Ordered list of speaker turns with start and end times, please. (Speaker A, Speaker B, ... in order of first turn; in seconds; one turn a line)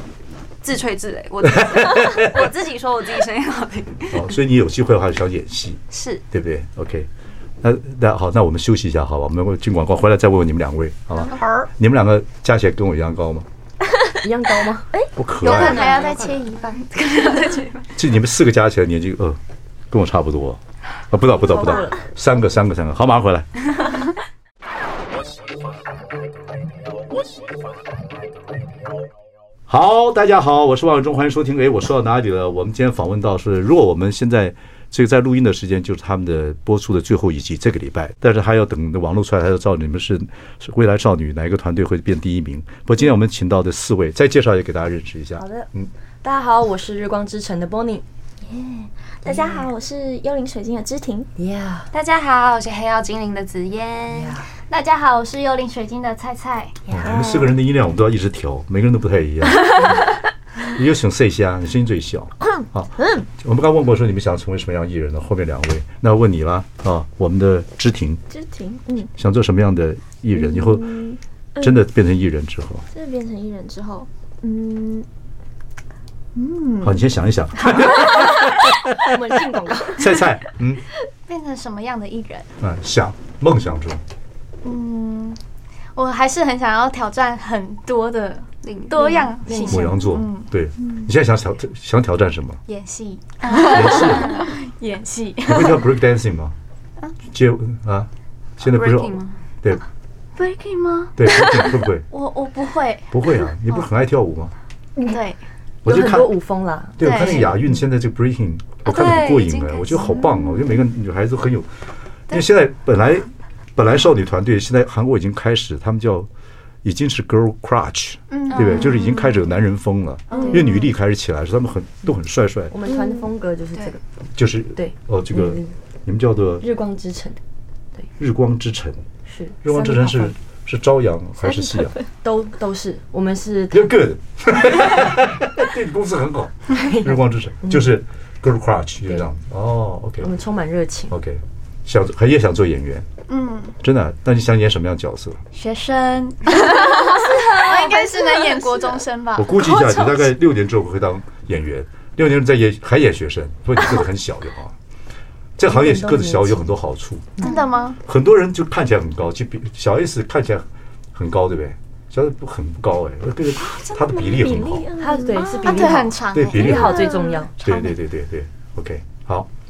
Speaker A: 0.6-4.3
Speaker B: 1.4-2.4
Speaker B: 4.1-7.1
Speaker A: 5.9-6.2
Speaker B: 7.6-13.5
Speaker C: 14.2-15.0
Speaker B: 15.2-16.1
Speaker A: 15.4-17.8
Speaker D: 15.4-17.6
Speaker B: 17.9-23.5
Speaker C: 21.5-22.0
Speaker B: 29.7-45.9
Speaker C: 45.4-45.7
Speaker C: 46.2-48.0
Speaker E: 48.5-51.3
Speaker C: 49.3-49.6
Speaker C: 51.4-51.9
Speaker A: 51.9-54.4
Speaker C: 54.1-54.5
Speaker D: 54.7-56.9
Speaker C: 56.9-57.3
Speaker B: 56.9-59.9
Speaker E: 57.1-57.5
Speaker B: 60.7-68.2
Speaker E: 68.3-69.1
Speaker B: 69.2-70.9
Speaker E: 70.4-71.9
Speaker B: 71.6-72.8
Speaker E: 72.9-75.1
Speaker E: 76.3-77.0
Speaker B: 76.8-79.0
Speaker E: 77.7-78.3
Speaker C: 79.0-80.1
Speaker B: 79.9-80.8
Speaker D: 81.3-82.5
Speaker B: 82.6-84.0
Speaker D: 84.6-85.4
Speaker D: 86.0-90.5
Speaker A: 88.6-89.4
Speaker C: 89.0-90.0
Speaker B: 89.6-92.6
Speaker D: 92.7-95.9
Speaker A: 93.4-94.5
Speaker B: 93.6-94.4
Speaker B: 95.4-96.5
Speaker B: 97.3-99.8
Speaker A: 98.6-99.4
Speaker D: 100.4-103.3
Speaker B: 101.2-102.1
Speaker B: 103.1-104.5
Speaker D: 105.0-105.4
Speaker B: 105.8-106.3
Speaker C: 105.8-107.5
Speaker B: 107.0-111.7
Speaker D: 107.0-107.5
Speaker A: 108.8-110.2
Speaker B: 112.3-116.3
Speaker B: 116.8-122.7
Speaker D: 118.3-119.1
Speaker A: 118.5-119.2
Speaker D: 120.3-120.9
Speaker C: 122.7-124.0
Speaker E: 122.9-123.3
Speaker B: 124.3-126.6
Speaker C: 124.8-125.7
Speaker C: 126.6-127.4
Speaker B: 128.2-129.0
Speaker C: 129.3-130.3
Speaker B: 129.6-132.0
Speaker E: 131.5-132.1
Speaker C: 132.2-134.0
Speaker B: 133.7-140.3
Speaker C: 136.7-137.9
Speaker C: 140.2-141.1
Speaker B: 141.1-143.1
Speaker D: 143.3-143.8
Speaker B: 143.8-145.4
Speaker D: 145.5-150.3
Speaker A: 146.5-149.0
Speaker B: 149.3-154.8
Speaker B: 155.6-164.9
Speaker C: 155.7-156.8
Speaker D: 157.4-158.0
Speaker A: 163.6-164.1
Speaker E: 163.9-166.0
Speaker C: 164.9-167.6
Speaker D: 165.6-166.9
Speaker B: 166.3-169.5
Speaker E: 166.9-167.4